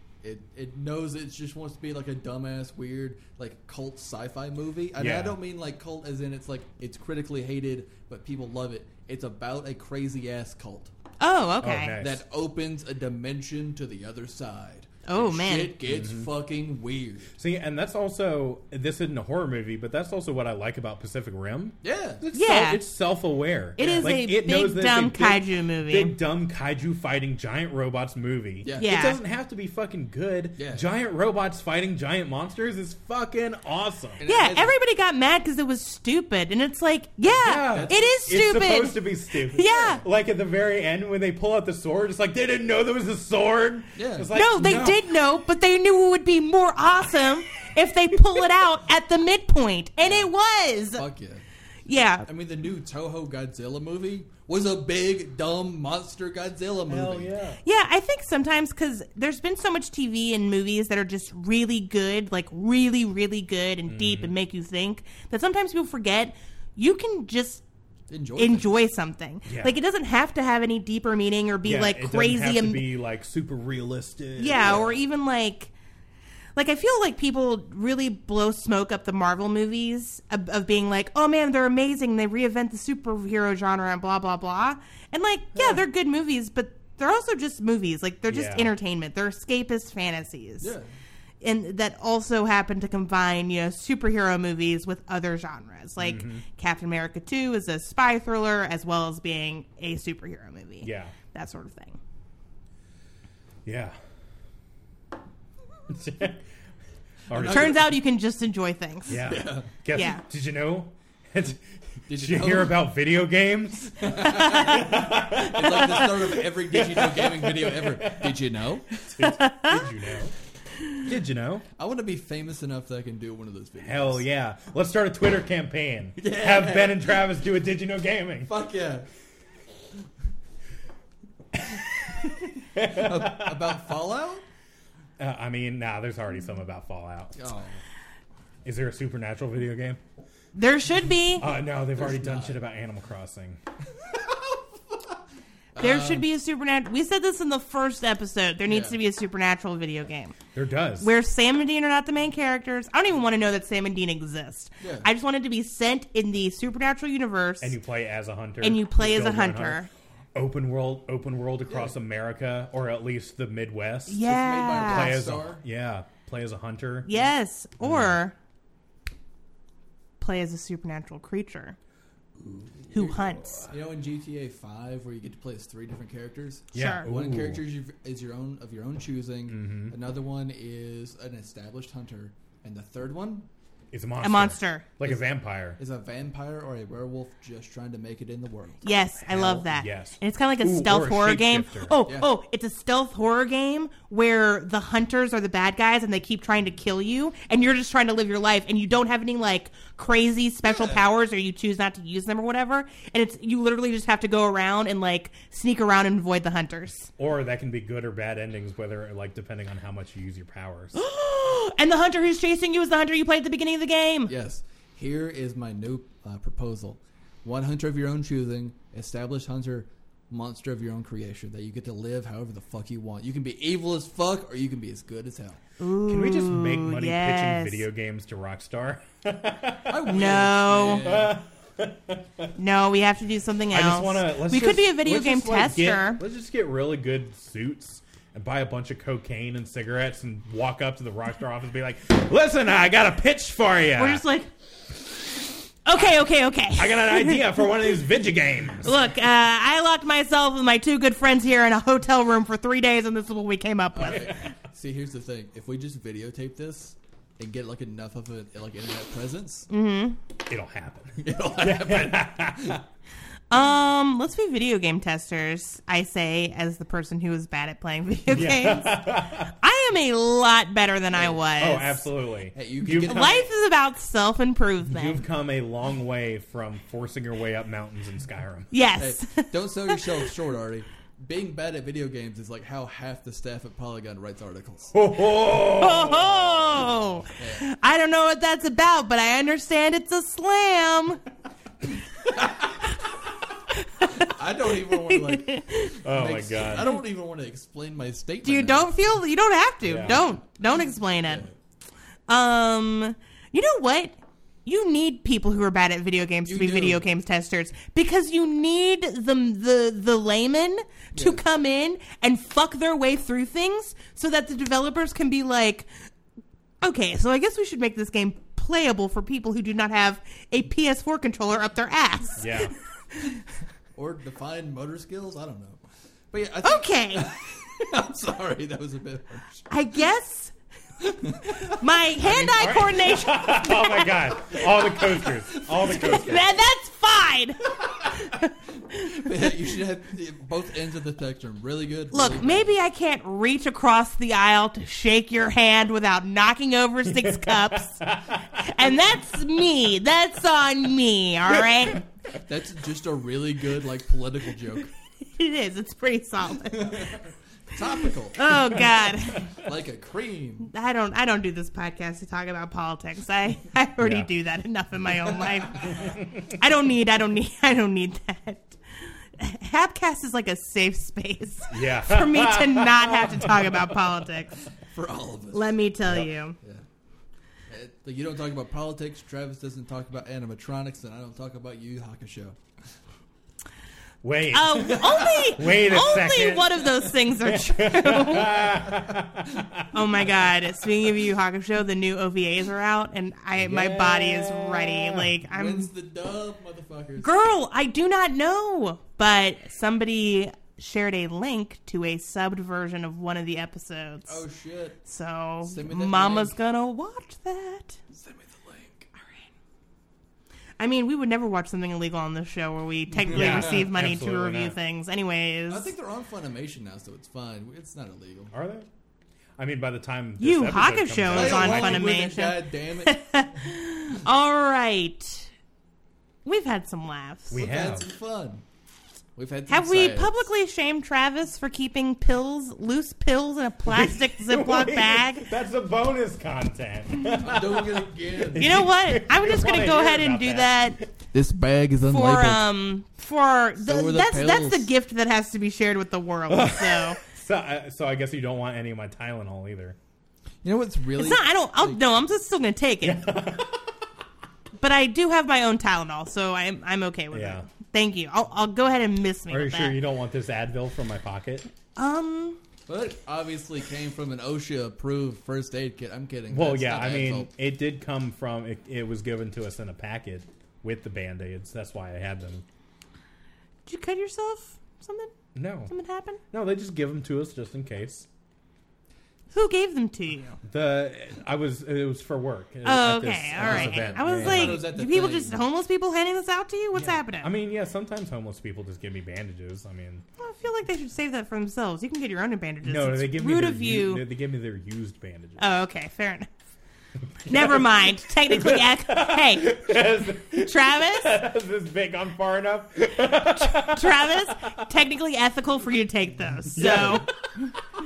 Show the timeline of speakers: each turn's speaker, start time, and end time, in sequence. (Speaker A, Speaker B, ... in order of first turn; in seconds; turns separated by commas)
Speaker A: 0.2-10.9, Speaker B: 5.0-5.4, Speaker C: 11.2-12.0, Speaker B: 11.6-12.2, Speaker A: 12.0-17.3, Speaker C: 15.1-15.8, Speaker B: 15.9-16.3, Speaker B: 17.4-34.2, Speaker A: 21.8-22.2, Speaker C: 22.3-22.8, Speaker C: 23.8-26.2, Speaker A: 23.8-24.2, Speaker A: 28.6-28.9, Speaker C: 28.8-29.2, Speaker A: 30.6-30.9, Speaker A: 34.2-34.7, Speaker C: 34.3-40.0, Speaker B: 37.3-45.0, Speaker A: 37.7-38.0, Speaker A: 44.0-44.3, Speaker C: 44.3-51.0, Speaker A: 50.0-50.3, Speaker A: 50.9-51.5, Speaker C: 51.9-52.3, Speaker A: 52.3-57.4, Speaker B: 56.9-57.6, Speaker C: 57.6-67.6, Speaker B: 63.9-64.3, Speaker A: 68.1-68.8, Speaker C: 68.4-72.8, Speaker B: 69.5-69.8, Speaker B: 71.6-74.9, Speaker C: 74.4-75.7, Speaker A: 74.6-74.9, Speaker C: 76.6-90.7, Speaker B: 88.3-88.7, Speaker A: 90.6-90.9, Speaker C: 91.4-102.0, Speaker B: 96.0-96.5, Speaker B: 100.8-101.2, Speaker B: 103.7-104.0, Speaker B: 105.9-106.5, Speaker B: 107.3-107.8, Speaker A: 107.3-107.9, Speaker C: 107.4-109.3, Speaker B: 109.1-118.4, Speaker A: 109.2-109.7, Speaker C: 109.9-110.2, Speaker A: 112.1-112.8, Speaker A: 114.0-118.9, Speaker C: 114.2-114.9, Speaker B: 119.1-120.3, Speaker C: 119.2-119.8, Speaker B: 121.0-121.7, Speaker A: 121.8-124.2, Speaker B: 123.8-128.5, Speaker A: 126.2-127.2, Speaker A: 128.5-129.1, Speaker B: 131.5-133.8, Speaker A: 132.8-134.4, Speaker B: 135.2-137.4, Speaker A: 137.4-137.8, Speaker B: 138.7-140.0, Speaker C: 140.5-141.5, Speaker B: 141.4-143.6, Speaker A: 142.0-142.6, Speaker A: 144.1-145.0, Speaker A: 145.8-146.3, Speaker C: 145.8-150.3, Speaker A: 148.7-149.0, Speaker B: 150.5-151.1, Speaker C: 151.0-157.8, Speaker A: 154.8-155.1, Speaker B: 157.6-159.8, Speaker C: 158.6-159.9, Speaker B: 160.3-164.2, Speaker C: 164.1-165.2, Speaker A: 164.2-165.6, Speaker B: 164.7-167.1, Speaker C: 167.1-168.3, Speaker B: 167.8-168.2, Speaker C: 170.2-171.8, Speaker B: 172.4-173.8, Speaker C: 172.9-173.7, Speaker A: 173.7-183.5, Speaker C: 176.7-177.1, Speaker B: 176.7-177.6, Speaker B: 179.5-179.9, Speaker B: 183.9-185.8, Speaker C: 184.2-184.9, Speaker A: 185.8-188.9, Speaker C: 188.8-207.1, Speaker B: 189.2-192.0, Speaker A: 192.1-192.3, Speaker A: 200.7-201.0, Speaker B: 207.2-210.9, Speaker C: 210.9-214.3, Speaker A: 214.3-225.6, Speaker C: 225.8-227.8, Speaker B: 226.1-230.4, Speaker A: 229.9-231.4, Speaker C: 230.1-231.1, Speaker B: 231.0-232.5, Speaker C: 232.6-236.2, Speaker B: 233.7-244.2, Speaker C: 244.0-244.5, Speaker C: 245.8-248.0, Speaker B: 245.9-248.9, Speaker C: 248.8-254.5, Speaker A: 253.9-259.7, Speaker C: 259.7-260.2, Speaker B: 260.5-262.8, Speaker A: 261.2-262.8, Speaker C: 263.5-272.1, Speaker B: 268.3-269.5, Speaker A: 271.1-271.4, Speaker B: 271.6-273.4, Speaker A: 272.5-273.5, Speaker C: 273.0-275.2, Speaker B: 274.9-278.7, Speaker C: 278.7-280.3, Speaker A: 279.0-284.9, Speaker B: 284.9-287.2, Speaker C: 285.7-291.2, Speaker A: 287.4-287.7, Speaker A: 292.2-293.1, Speaker C: 293.7-294.3, Speaker A: 294.1-298.9, Speaker C: 294.9-296.0, Speaker B: 296.0-296.9, Speaker C: 298.4-301.4, Speaker B: 299.8-300.3, Speaker A: 301.3-301.5, Speaker C: 302.3-315.9, Speaker A: 306.4-307.0, Speaker A: 311.1-311.4, Speaker C: 316.8-323.4, Speaker B: 322.4-322.7, Speaker A: 323.9-329.7, Speaker C: 326.6-327.3, Speaker C: 329.7-330.5, Speaker A: 331.1-331.8, Speaker C: 331.5-334.6, Speaker B: 332.2-336.5, Speaker C: 335.8-339.5, Speaker A: 338.3-342.7, Speaker C: 342.1-348.0, Speaker B: 347.1-348.9, Speaker C: 348.6-352.1, Speaker A: 352.3-354.9, Speaker C: 355.2-357.2, Speaker A: 356.6-360.7, Speaker C: 358.4-359.6, Speaker C: 360.7-374.6, Speaker B: 364.0-364.3, Speaker A: 365.4-365.9, Speaker B: 371.7-373.8, Speaker A: 374.9-375.8, Speaker C: 375.5-376.6, Speaker A: 376.6-376.9, Speaker A: 377.7-382.6, Speaker B: 384.2-389.9, Speaker C: 384.5-388.7, Speaker A: 385.0-385.5, Speaker C: 389.9-395.9, Speaker B: 393.6-395.4, Speaker A: 395.4-397.4, Speaker C: 397.2-404.4, Speaker A: 404.3-405.0, Speaker C: 405.1-408.0, Speaker A: 405.6-406.6, Speaker A: 408.1-409.1, Speaker C: 410.8-415.9, Speaker A: 413.1-413.9, Speaker B: 413.3-414.8, Speaker A: 415.7-418.5, Speaker B: 418.5-418.9, Speaker B: 419.6-422.1, Speaker C: 420.4-425.5, Speaker A: 421.3-423.6, Speaker C: 426.4-427.6, Speaker B: 427.5-428.1, Speaker A: 427.5-428.6, Speaker A: 429.4-430.5, Speaker C: 429.7-435.5, Speaker B: 433.9-441.1, Speaker A: 437.3-438.8, Speaker C: 438.6-441.0, Speaker A: 441.3-442.6, Speaker C: 442.1-447.2, Speaker A: 443.8-444.9, Speaker B: 446.5-450.0, Speaker A: 450.6-452.0, Speaker C: 451.2-453.2, Speaker B: 453.0-453.9, Speaker C: 454.8-460.0, Speaker B: 457.3-457.7, Speaker B: 459.5-461.7, Speaker C: 462.0-462.6, Speaker A: 462.9-467.5, Speaker B: 466.5-472.6, Speaker C: 473.9-475.3, Speaker B: 475.6-475.9, Speaker C: 475.9-476.4, Speaker B: 476.5-478.3, Speaker C: 479.5-480.6, Speaker B: 480.6-484.9, Speaker C: 482.9-487.5, Speaker A: 483.6-485.6, Speaker B: 487.0-490.2, Speaker C: 490.4-494.2, Speaker B: 492.8-495.6, Speaker C: 495.6-496.5, Speaker B: 497.4-504.8, Speaker C: 497.5-499.8, Speaker C: 500.6-501.4, Speaker C: 503.5-507.7, Speaker B: 506.7-507.3